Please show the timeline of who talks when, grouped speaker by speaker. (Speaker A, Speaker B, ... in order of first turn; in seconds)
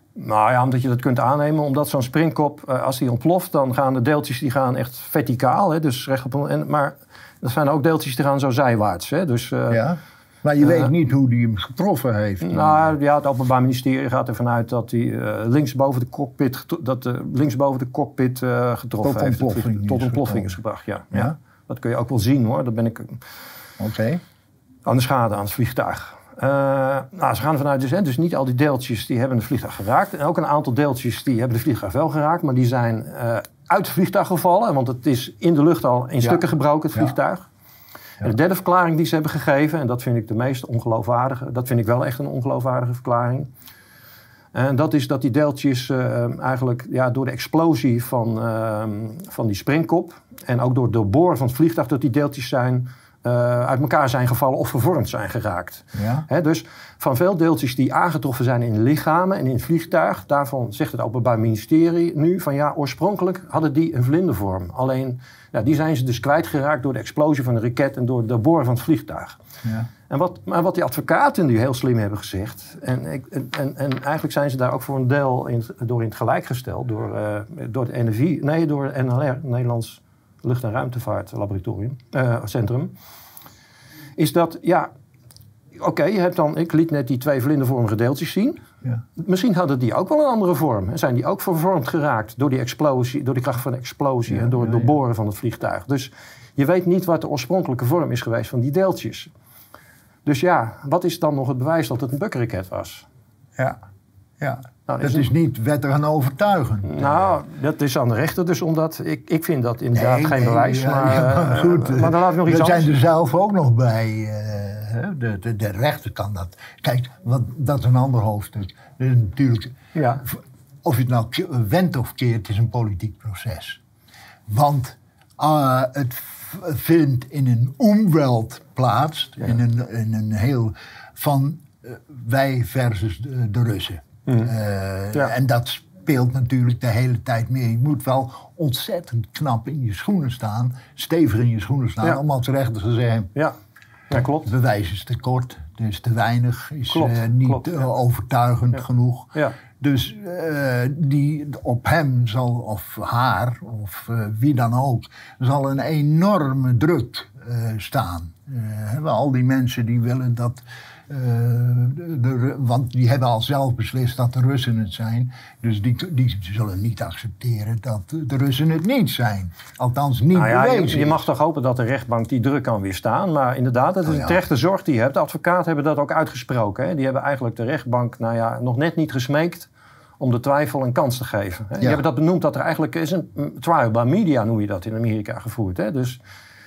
Speaker A: 0.2-9.9, 10.6-10.9, 12.4-23.2, 24.9-37.5, 38.2-43.5, 44.5-69.4, 70.1-82.9, 84.2-84.9, 85.8-88.6, 89.2-99.3, 100.2-103.1, 104.9-105.3, 106.8-112.9, 120.0-120.2, 144.1-144.5, 146.9-147.7, 170.3-179.7, 180.2-186.2
Speaker B: 9.7-12.9, 19.0-20.6, 23.8-24.2, 56.0-56.3, 94.3-94.9, 104.4-107.3, 109.9-119.7, 120.2-123.8, 124.5-143.3, 144.4-171.2, 174.1-174.4